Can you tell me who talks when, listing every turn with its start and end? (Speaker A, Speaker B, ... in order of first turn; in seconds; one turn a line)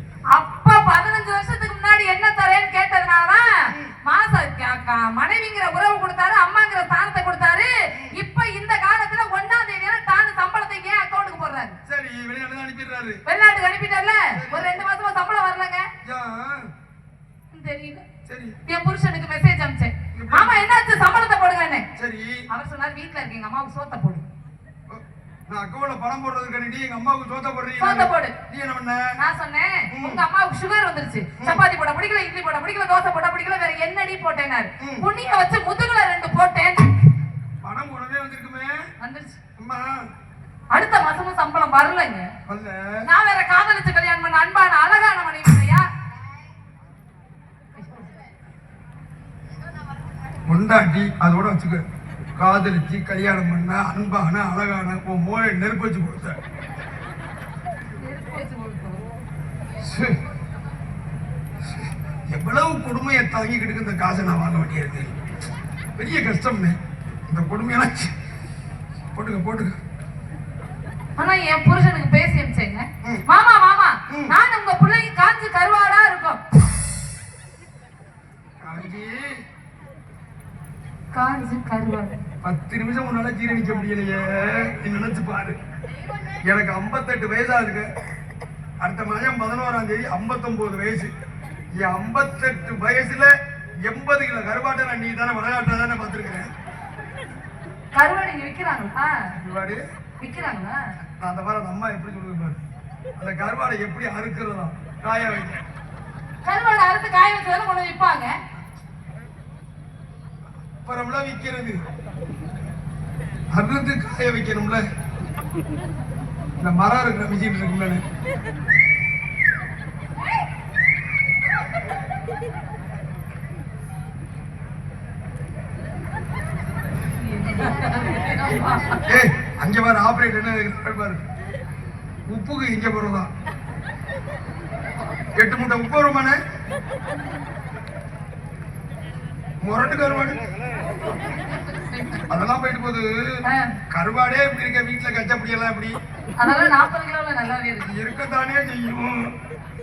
Speaker A: 0.3-3.5
Speaker A: 4.0-11.8
Speaker B: 7.9-8.2
Speaker B: 11.8-13.2
Speaker A: 13.2-15.8
Speaker B: 14.3-14.8
Speaker B: 16.0-16.7
Speaker A: 17.5-18.0
Speaker B: 18.2-18.6
Speaker A: 18.6-21.8
Speaker B: 20.1-20.6
Speaker B: 21.9-22.4
Speaker A: 22.5-24.2
Speaker B: 24.9-29.1
Speaker A: 27.8-28.4
Speaker A: 29.2-36.9
Speaker B: 29.9-30.2
Speaker B: 31.4-31.6
Speaker B: 34.8-35.1
Speaker B: 37.6-38.8
Speaker A: 39.0-39.4
Speaker B: 39.6-40.0
Speaker A: 40.7-42.3
Speaker B: 42.5-43.1
Speaker A: 43.1-45.8
Speaker A: 47.8-48.1
Speaker B: 50.5-51.8
Speaker B: 52.4-56.4
Speaker A: 58.0-59.0
Speaker B: 59.8-60.2
Speaker B: 62.3-65.1
Speaker B: 66.0-68.1
Speaker B: 69.1-69.8
Speaker A: 71.2-76.4
Speaker B: 74.1-74.3
Speaker B: 78.6-79.3
Speaker A: 81.1-82.2
Speaker B: 82.4-85.6
Speaker B: 86.4-87.9
Speaker B: 88.8-91.1
Speaker B: 91.8-96.5
Speaker A: 97.9-99.1
Speaker B: 99.4-99.8
Speaker A: 100.2-100.8
Speaker B: 101.2-102.6
Speaker B: 103.2-105.6
Speaker A: 106.4-108.4
Speaker B: 110.8-111.8
Speaker B: 113.5-114.8
Speaker B: 116.6-118.0
Speaker A: 127.2-129.0
Speaker B: 129.1-131.2
Speaker B: 132.3-133.3
Speaker B: 135.3-136.4
Speaker B: 139.6-140.4
Speaker A: 141.7-142.3
Speaker B: 142.3-146.7
Speaker A: 143.5-143.8
Speaker A: 146.4-147.9
Speaker B: 147.8-149.3